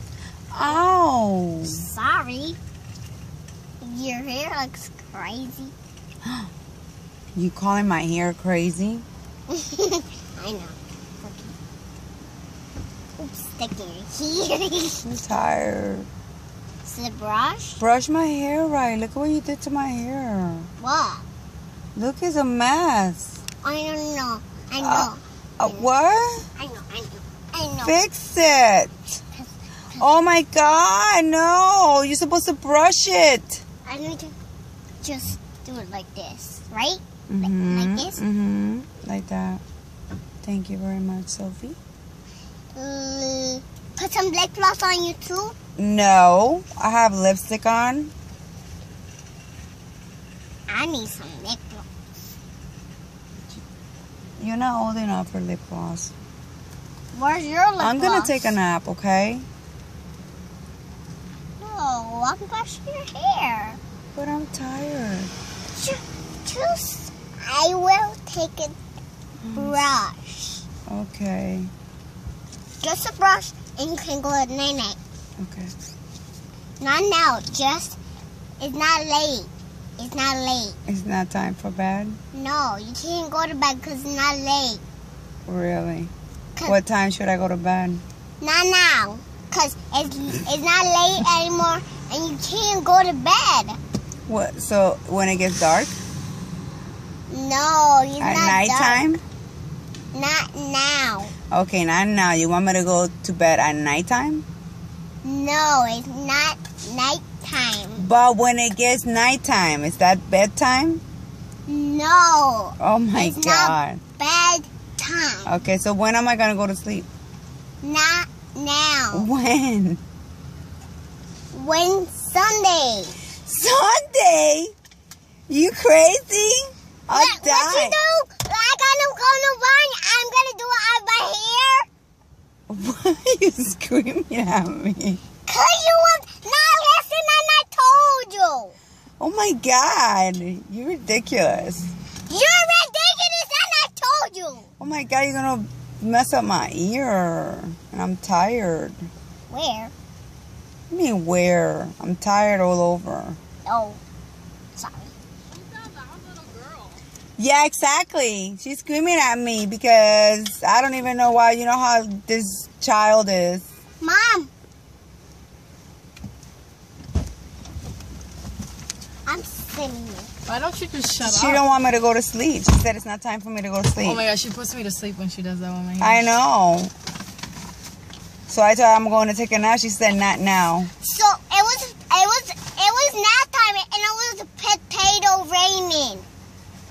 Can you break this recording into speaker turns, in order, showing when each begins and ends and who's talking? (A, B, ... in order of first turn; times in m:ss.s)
0:00.5-0:01.8 A
0:01.6-0:02.6 B
0:03.8-0:05.7 B
0:06.2-0:06.5 A
0:07.3-0:09.0 A
0:09.5-0:11.5 B
0:13.2-0:15.0 B
0:15.0-0:16.1 A
0:16.8-0:17.8 B
0:17.8-0:20.7 A
0:20.8-0:21.2 B
0:21.9-0:23.4 A
0:23.6-0:25.9 B
0:24.8-0:26.4 A
0:26.6-0:27.9 B
0:27.8-0:29.0 A
0:29.3-0:30.1 B
0:30.0-0:33.6 A
0:33.8-0:34.3 B
0:35.0-0:38.2 B
0:37.3-0:39.6 A
0:40.4-0:41.8 A
0:42.7-0:45.5 B
0:45.8-0:48.1 A
0:50.7-0:51.8 B
0:54.4-0:56.1 A
0:57.1-0:58.5 B
0:57.8-0:59.5 A
1:01.6-1:03.8 B
1:04.1-1:05.3 A
1:05.7-1:08.8 B
1:09.4-1:09.8 A
1:09.5-1:10.6 B
1:10.9-1:11.7 A
1:12.8-1:15.0 B
1:15.4-1:15.7 A
1:16.8-1:18.0 B
1:18.6-1:20.8 B
1:20.9-1:22.2 A
1:22.3-1:24.8 B
1:25.4-1:26.1 A
1:26.6-1:28.0 A
1:28.4-1:33.8 B
1:34.3-1:36.0 A
1:37.3-1:39.2 B
1:38.2-1:39.2 A
1:40.1-1:41.3 B
1:41.5-1:44.4 A
1:45.2-1:48.1 B
1:48.0-1:51.0 A
1:51.7-1:55.5 B
1:52.8-1:54.0 A
1:55.4-1:57.1 A
1:57.8-1:59.3 B
1:59.1-2:00.0 A
2:01.5-2:03.2 B
2:03.4-2:04.7 A
2:05.5-2:08.0 A
2:07.1-2:11.9 B
2:12.7-2:15.2 A
2:15.4-2:18.8 B
2:19.2-2:21.9 A
2:22.3-2:24.7 B
2:24.8-2:29.1 A
2:29.5-2:29.9 B
2:30.9-2:33.4 A
2:33.6-2:34.0 B
2:34.8-2:35.1 B
2:35.5-2:37.0 C
2:37.4-2:43.6 A
2:44.0-2:44.5 B
2:49.2-2:50.3 B
2:50.4-2:51.6 C
2:51.2-2:54.2 A
2:54.0-2:56.2 C
2:56.0-2:56.9 A
2:58.5-3:00.9 A
3:01.0-3:06.2 B